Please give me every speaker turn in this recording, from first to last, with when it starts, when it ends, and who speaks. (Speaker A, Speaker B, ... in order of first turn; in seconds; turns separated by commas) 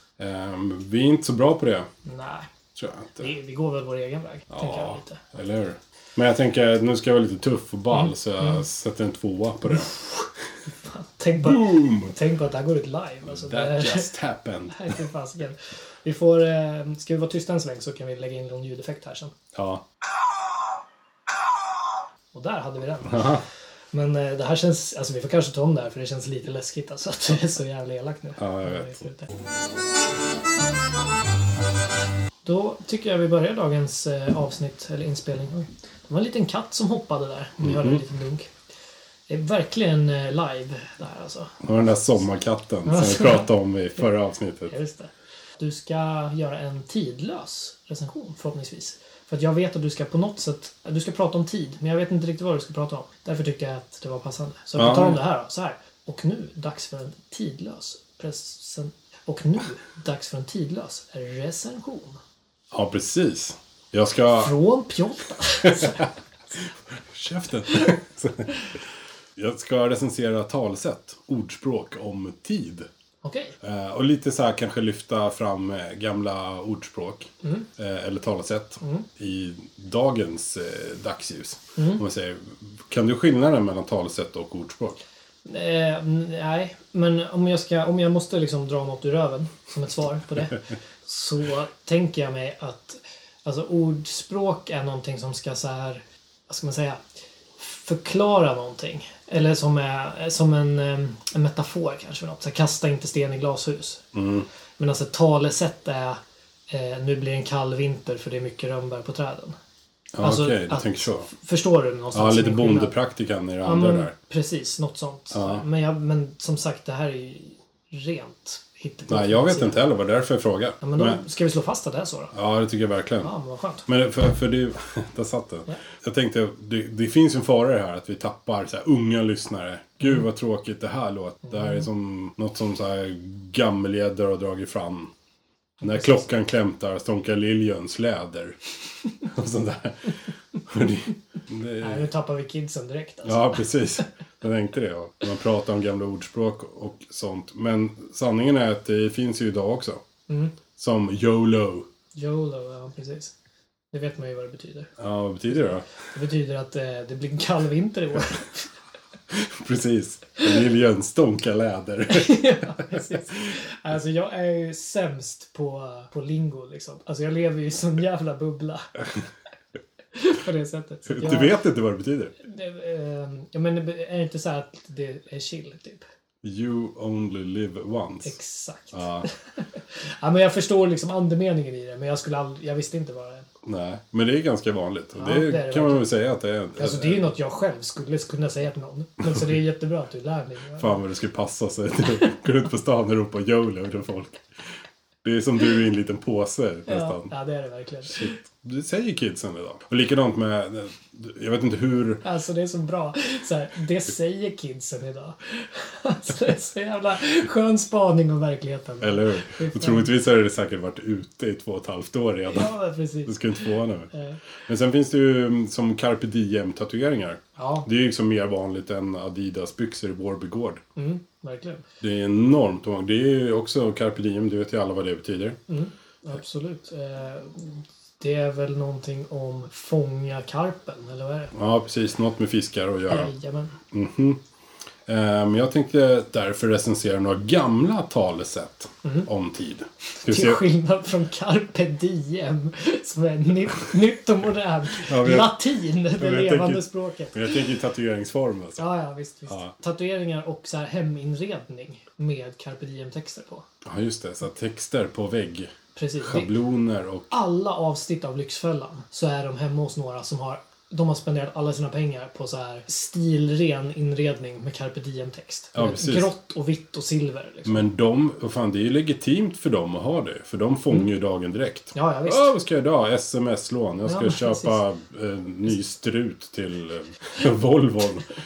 Speaker A: 0.2-1.9, Speaker B: 2.0-2.5, Speaker A: 2.8-3.3, Speaker B: 3.2-5.2, Speaker A: 4.5-9.9, Speaker B: 7.9-8.6, Speaker B: 10.7-14.1, Speaker A: 11.4-12.2, Speaker A: 13.2-15.0, Speaker B: 14.7-19.4, Speaker A: 19.5-19.8, Speaker B: 22.3-23.4, Speaker A: 23.1-23.4, Speaker B: 23.9-29.3, Speaker A: 28.4-29.0, Speaker B: 32.5-38.5, Speaker A: 37.6-38.0, Speaker B: 39.3-41.6, Speaker A: 41.6-44.7, Speaker B: 42.9-44.1, Speaker B: 44.7-62.2, Speaker A: 54.8-55.2, Speaker A: 62.7-64.5, Speaker B: 64.4-66.1, Speaker A: 65.7-66.0, Speaker A: 66.6-68.7, Speaker A: 69.4-72.9, Speaker B: 73.2-73.6, Speaker A: 73.6-85.0, Speaker B: 78.8-79.1, Speaker B: 81.8-82.0, Speaker B: 85.5-97.0, Speaker B: 97.6-104.0, Speaker A: 104.1-104.5, Speaker B: 104.8-109.6, Speaker A: 110.2-111.3, Speaker B: 110.2-113.0, Speaker A: 112.1-114.2, Speaker B: 113.6-119.8, Speaker A: 115.3-115.6, Speaker A: 119.1-121.2, Speaker B: 120.8-122.3, Speaker A: 122.3-123.3, Speaker B: 123.2-123.9, Speaker A: 123.9-135.1, Speaker B: 131.5-131.8, Speaker B: 135.8-136.2, Speaker A: 135.8-138.6, Speaker A: 139.2-142.1, Speaker B: 141.8-144.0, Speaker A: 143.2-150.0, Speaker B: 150.3-150.6, Speaker A: 150.8-151.9, Speaker B: 152.2-153.3, Speaker B: 153.9-154.9, Speaker A: 155.0-155.9, Speaker B: 156.1-158.7, Speaker A: 159.3-163.0, Speaker B: 162.1-169.0, Speaker B: 170.1-171.6, Speaker A: 171.1-172.3, Speaker B: 172.4-176.1, Speaker A: 176.4-178.4, Speaker B: 178.2-183.5, Speaker A: 178.9-179.3, Speaker A: 183.6-187.3, Speaker B: 185.2-186.1, Speaker B: 186.8-191.0, Speaker A: 190.8-194.4, Speaker A: 195.2-197.3, Speaker B: 196.9-198.4, Speaker A: 198.1-202.2, Speaker B: 202.2-210.1, Speaker A: 209.0-212.7, Speaker B: 212.5-214.4, Speaker A: 213.2-214.1, Speaker A: 214.7-220.8, Speaker B: 217.6-217.9, Speaker B: 221.0-221.8, Speaker A: 222.0-225.6, Speaker B: 225.7-231.5, Speaker A: 231.5-233.3, Speaker B: 233.1-233.8, Speaker A: 233.9-234.4, Speaker A: 235.1-240.6, Speaker B: 240.2-247.6, Speaker A: 245.0-245.6, Speaker A: 246.2-248.8, Speaker B: 248.8-253.7, Speaker A: 253.8-257.3, Speaker B: 256.0-256.5, Speaker B: 257.3-267.8, Speaker A: 265.7-266.3, Speaker A: 267.6-278.4, Speaker B: 271.9-272.5, Speaker B: 274.1-274.8